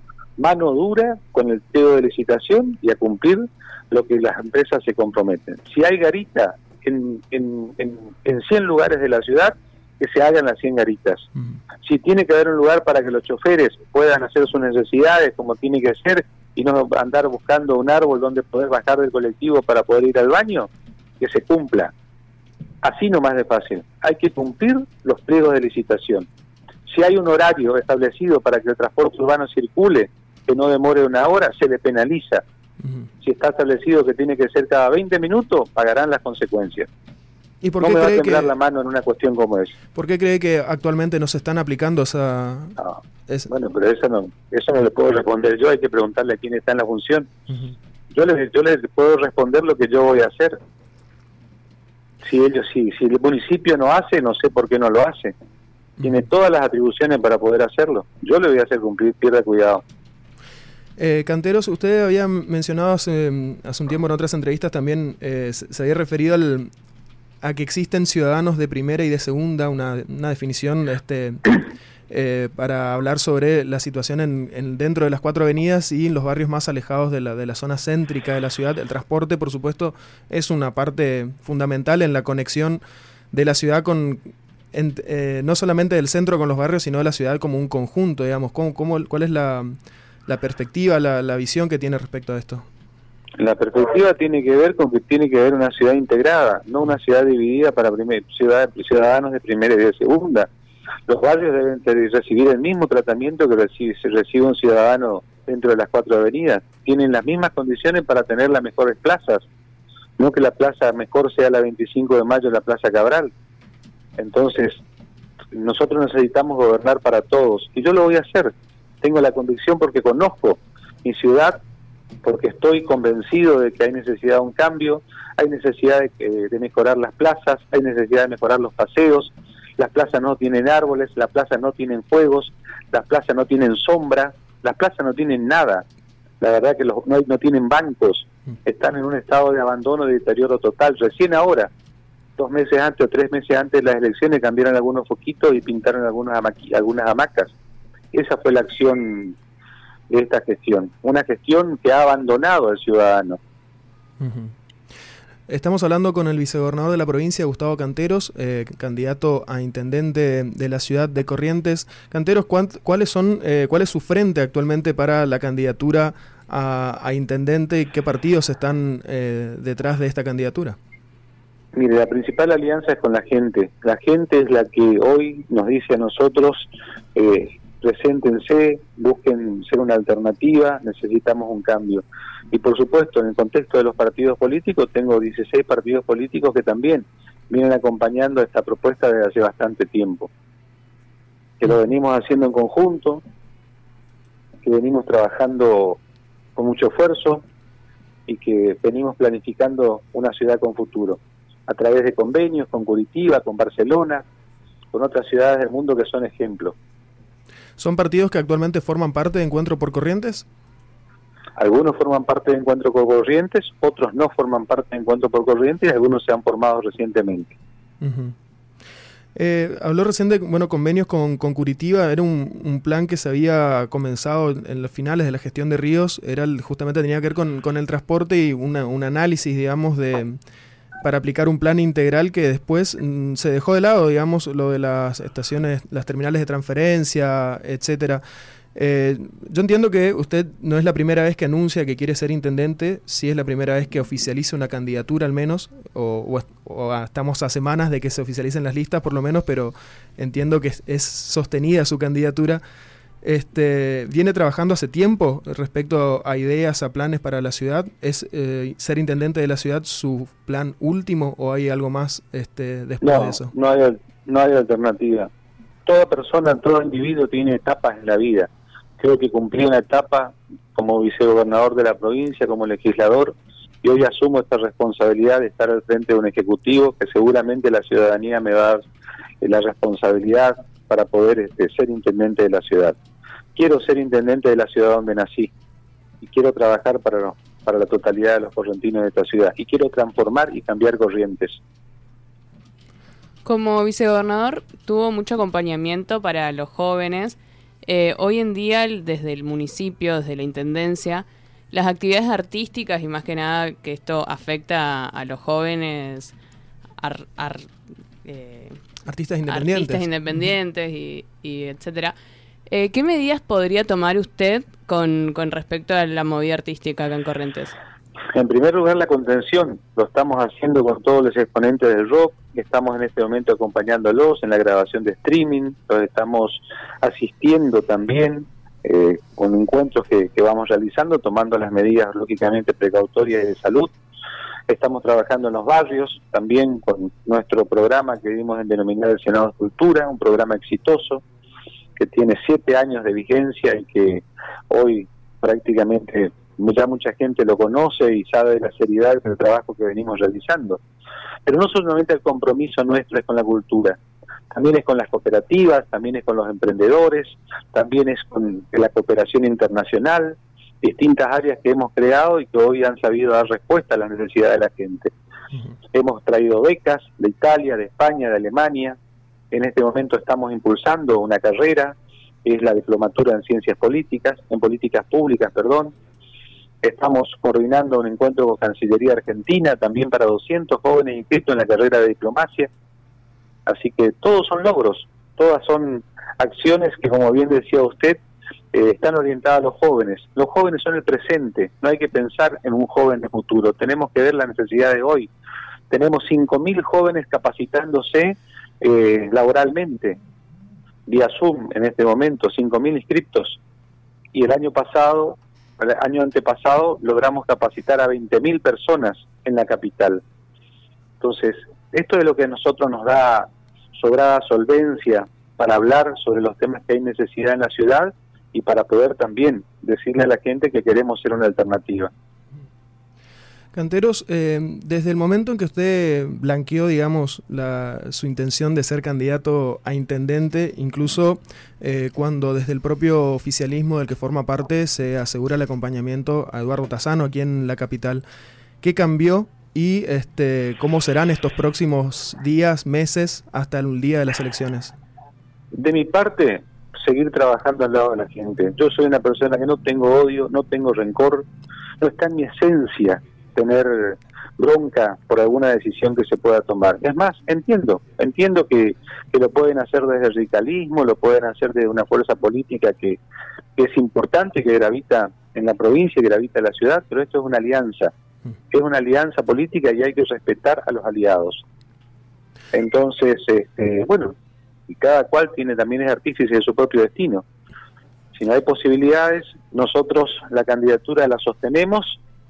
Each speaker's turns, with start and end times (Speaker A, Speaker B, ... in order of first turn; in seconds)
Speaker A: 0.4-11.3, 11.8-20.7, 21.2-21.9, 22.8-26.3, 26.9-32.4, 33.2-36.9, 37.8-39.8, 42.8-47.3, 48.1-50.6, 52.2-55.3, 56.0-59.8, 93.4-100.5, 101.1-109.4, 110.2-113.3, 114.2-114.8, 115.5-121.6, 122.2-135.8, 136.4-141.7, 142.4-147.5, 148.1-149.3, 150.1-153.4, 171.8-190.3, 191.6-193.2, 194.6-196.0, 196.6-197.4, 198.3-204.2, 204.9-206.8, 211.6-217.5, 263.0-265.3, 265.9-278.8, 279.4-282.9, 283.6-285.5, 286.2-291.6, 318.3-333.9, 334.7-341.2, 342.0-350.8, 351.5-354.0, 354.5-365.1, 365.9-369.0, 369.5-375.9, 376.8-382.7, 383.7-388.2, 388.7-395.3, 395.9-400.2, 401.1-403.6, 404.3-410.2, 411.2-422.1, 445.7-451.5, 452.0-463.2, 463.8-468.1, 468.7-471.6, 472.7-474.3, 474.9-477.4, 478.4-482.2
Speaker B: 37.6-38.5, 39.9-43.5, 61.0-66.7, 67.4-89.8, 90.3-92.7, 154.2-154.5, 155.5-170.8, 207.8-210.5, 218.0-218.3, 219.3-230.4, 231.0-238.2, 238.8-252.6, 253.2-263.5, 309.1-310.0, 423.7-438.2, 438.8-444.9
Speaker C: 293.4-306.3, 307.0-307.7, 308.2-308.8, 309.5-312.1, 312.7-317.8